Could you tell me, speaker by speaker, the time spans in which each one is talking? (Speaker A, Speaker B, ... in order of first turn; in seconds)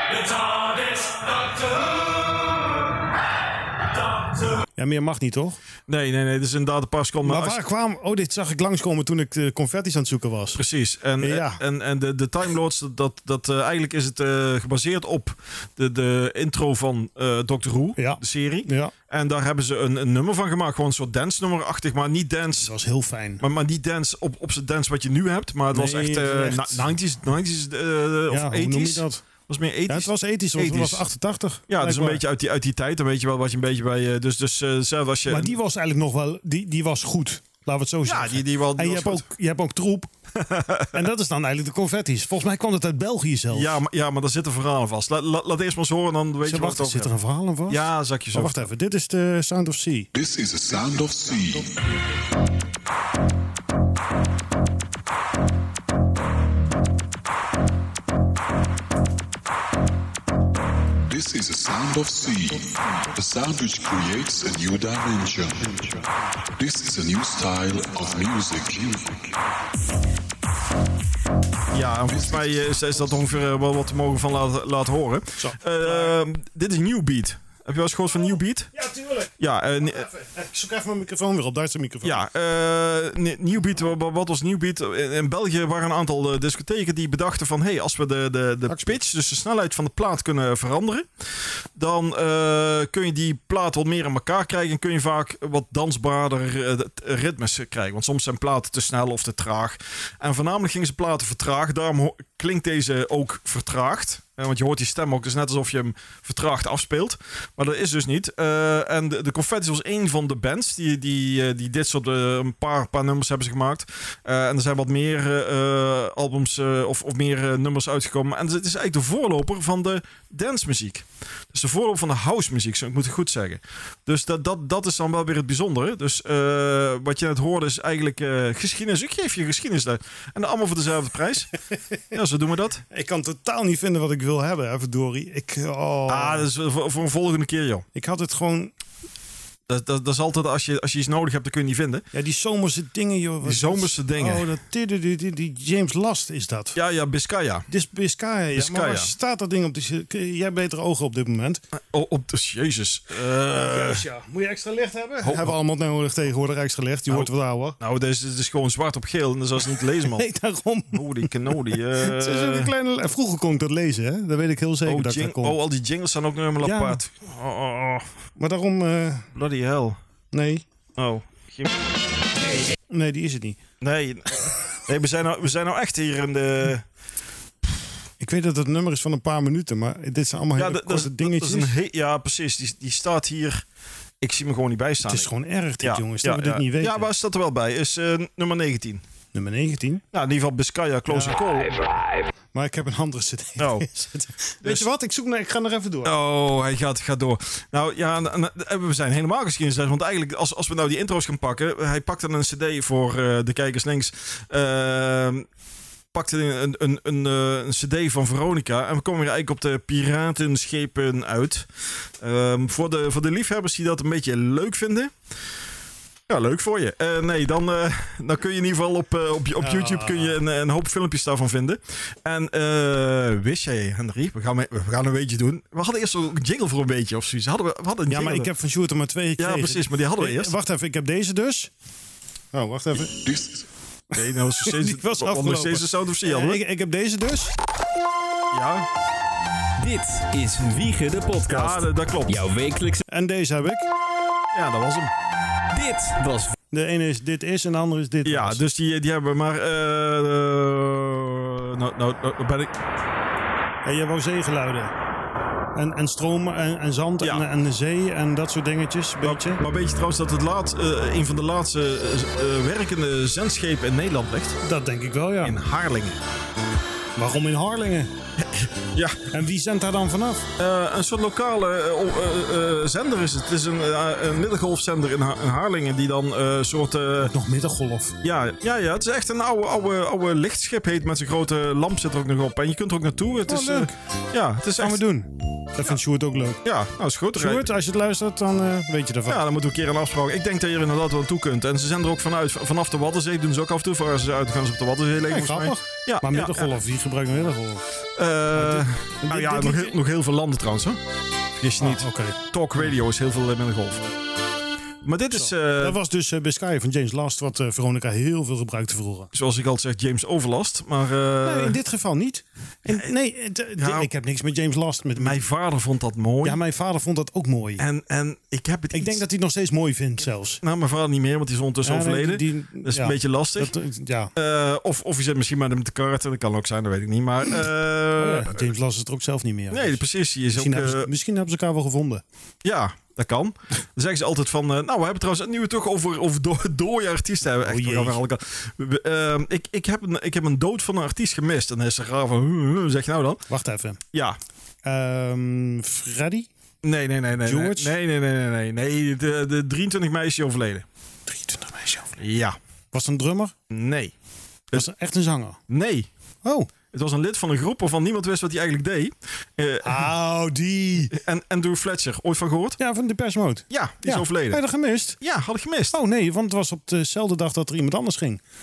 Speaker A: 4.8-5.6, 7.2-10.6, 11.2-11.6, 18.0-18.9, 22.6-23.4, 25.7-26.9, 28.3-29.2, 29.9-32.2, 35.3-40.1, 40.9-43.8, 46.4-50.1, 75.4-76.2, 78.7-79.3, 79.8-82.2, 88.7-88.9, 132.9-136.5, 137.9-138.7, 142.1-146.8, 147.7-151.6, 153.5-157.8, 159.7-165.6, 166.6-167.0, 168.4-169.3, 170.3-170.7, 172.9-173.6, 178.2-181.7, 185.1-187.1, 189.3-190.0, 191.1-191.4, 192.5-196.1, 219.6-220.4, 228.1-231.7, 232.5-233.2, 234.6-237.5, 243.1-243.9, 246.7-248.6, 253.8-254.9, 255.7-259.6, 264.6-265.6, 267.2-268.1, 269.3-270.5, 277.3-278.2, 283.5-283.9, 284.8-286.6, 287.3-289.4, 295.3-297.8, 298.5-299.9, 301.8-302.4, 305.3-309.3, 311.4-315.4, 316.4-317.8, 318.9-320.6, 321.8-324.3, 328.2-332.2, 337.6-338.2, 343.5-344.0, 344.8-346.5, 347.4-347.9, 351.3-352.2, 352.9-353.5, 354.7-355.6, 356.4-356.7, 359.8-361.1, 362.8-365.2, 365.9-368.4
Speaker B: 5.9-7.6, 10.6-22.7, 23.4-31.1, 31.7-35.5, 38.1-39.3, 40.4-41.1, 43.5-47.1, 47.7-48.7, 71.7-78.7, 79.4-80.1, 82.0-91.1, 91.8-131.5, 132.1-132.8, 136.1-137.8, 139.7-142.1, 143.4-144.5, 146.8-147.7, 148.5-149.1, 151.7-154.1, 155.2-155.5, 157.1-160.2, 160.9-162.7, 164.8-168.1, 169.3-170.0, 171.0-171.7, 173.8-176.8, 180.6-183.6, 184.2-185.3, 185.8-189.0, 190.1-191.9, 193.6-193.9, 194.6-194.9, 196.0-205.5, 206.1-211.7, 212.2-215.1, 216.3-228.5, 229.4-230.5, 234.1-236.6, 238.5-238.9, 241.5-242.4, 244.5-245.1, 248.2-252.8, 259.2-264.6, 265.4-266.2, 268.4-269.2, 270.6-277.3, 278.2-285.0, 286.6-287.7, 289.3-296.7, 298.2-301.0, 301.6-304.1, 305.0-306.0, 309.3-311.8, 313.8-314.1, 315.2-316.6, 317.8-319.2, 320.6-323.7, 324.3-328.7, 329.7-331.1, 332.6-343.4, 344.1-344.4, 346.8-350.8, 352.2-352.6, 353.7-354.1, 355.7-356.1, 356.9-360.1, 361.1-362.8, 363.7-364.6, 365.2-365.9
Speaker C: 50.1-51.7, 61.1-69.3, 72.1-72.7, 233.1-233.7
Speaker D: 239.8-243.0, 245.7-246.6